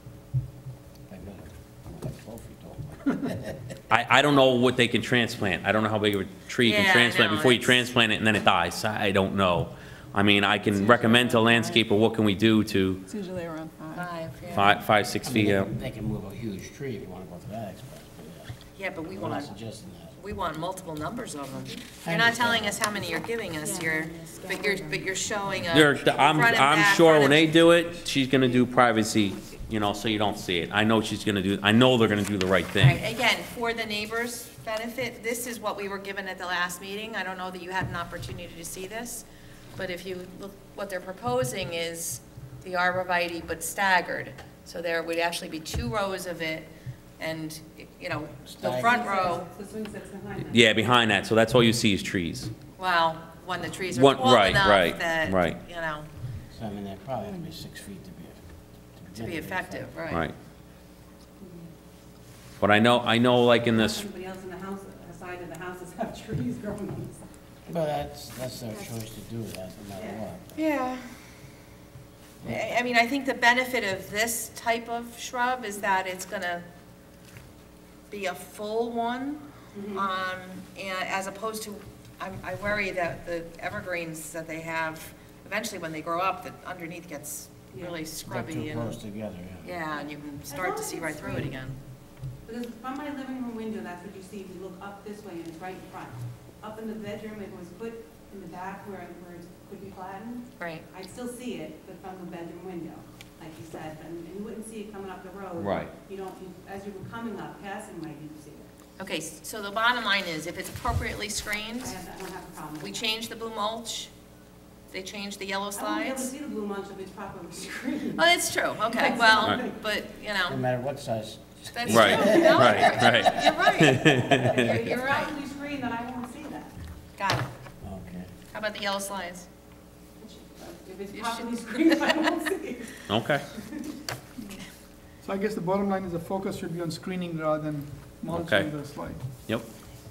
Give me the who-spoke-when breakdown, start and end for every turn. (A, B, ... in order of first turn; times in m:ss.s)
0:01.1-0:03.7 A
0:03.9-0:13.0 B
0:06.6-0:07.9 C
0:10.8-0:11.7 D
0:13.1-0:14.1 D
0:13.9-0:14.7 C
0:14.5-0:15.7 B
0:15.2-0:18.5 A
0:18.7-0:19.5 C
0:19.1-0:20.2 A
0:20.2-0:27.6 C
0:22.0-0:23.0 A
0:23.1-0:25.1 D
0:25.7-0:33.0 B
0:28.4-0:29.6 E
0:32.8-0:39.2 C
0:39.8-0:49.4 C
0:48.4-0:49.0 A
0:48.6-0:50.7 E
0:50.4-0:52.5 B
0:52.8-0:56.1 C
0:53.9-0:55.6 B
0:56.5-0:59.9 A
0:59.1-1:00.2 C
1:01.4-1:01.7 E
1:02.6-1:04.0 B
1:03.7-1:07.3 E
1:07.7-1:10.6 A
1:10.6-1:11.0 C
1:12.4-1:16.6 C
1:18.1-1:29.0 C
1:19.7-1:20.1 E
1:27.7-1:28.0 E
1:28.2-1:29.7 A
1:29.6-1:31.8 C
1:29.9-1:31.5 E
1:32.4-1:48.7 E
1:40.6-1:40.8 C
1:45.6-1:45.9 B
1:49.0-1:51.9 C
1:51.8-1:53.0 E
1:52.8-1:54.1 C
1:54.9-1:56.3 C
1:55.8-1:59.8 E
1:58.2-2:00.6 C
2:00.5-2:03.3 A
2:01.7-2:05.3 C
2:01.9-2:04.8 B
2:04.0-2:06.7 E
2:07.2-2:07.5 C
2:07.8-2:08.3 A
2:08.5-2:09.5 C
2:10.2-2:14.0 E
2:11.1-2:12.0 C
2:13.1-2:13.4 B
2:15.2-2:19.2 F
2:18.3-2:18.7 B